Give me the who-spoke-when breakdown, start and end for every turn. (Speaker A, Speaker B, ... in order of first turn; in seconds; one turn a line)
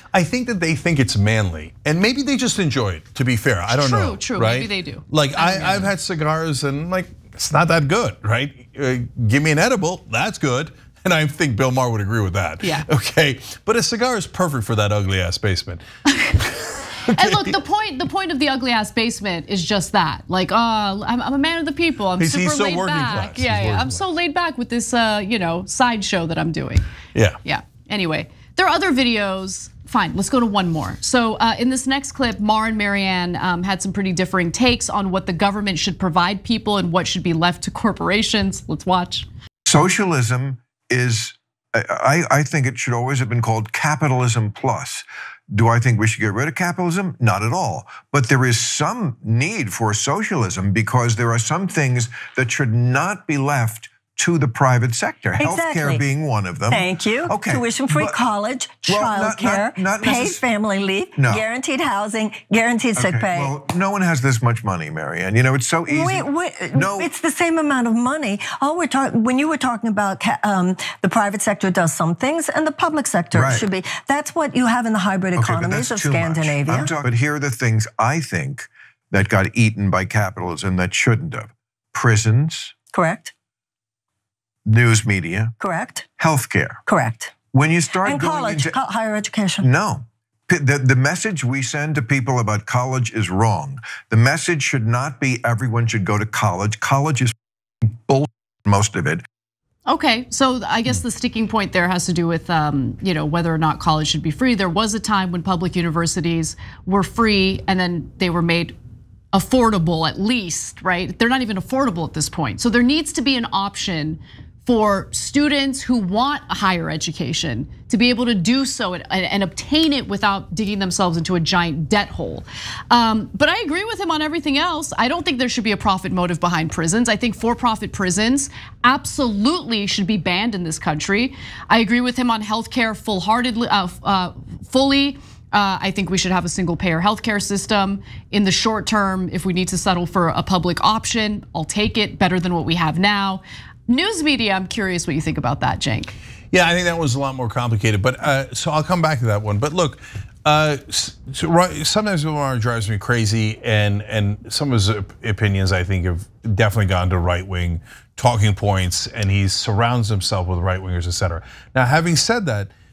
Speaker A: 0.1-15.8
Speaker B: 3.7-5.9
Speaker B: 16.1-16.4
Speaker B: 17.1-26.8
Speaker A: 17.1-17.5
Speaker A: 22.2-24.0
Speaker B: 27.4-39.3
Speaker C: 39.7-58.2
Speaker D: 55.4-56.0
Speaker D: 56.7-63.5
Speaker C: 58.9-60.5
Speaker C: 61.2-61.4
Speaker C: 63.0-67.1
Speaker D: 65.9-76.9
Speaker C: 73.3-73.7
Speaker C: 75.4-82.8
Speaker D: 82.9-83.3
Speaker C: 84.7-85.5
Speaker D: 85.6-86.1
Speaker C: 86.2-86.8
Speaker D: 86.9-87.3
Speaker C: 87.5-88.8
Speaker D: 88.0-89.7
Speaker C: 89.6-97.3
Speaker C: 97.8-99.2
Speaker B: 99.9-108.8
Speaker B: 109.3-146.1
Speaker A: 146.5-162.7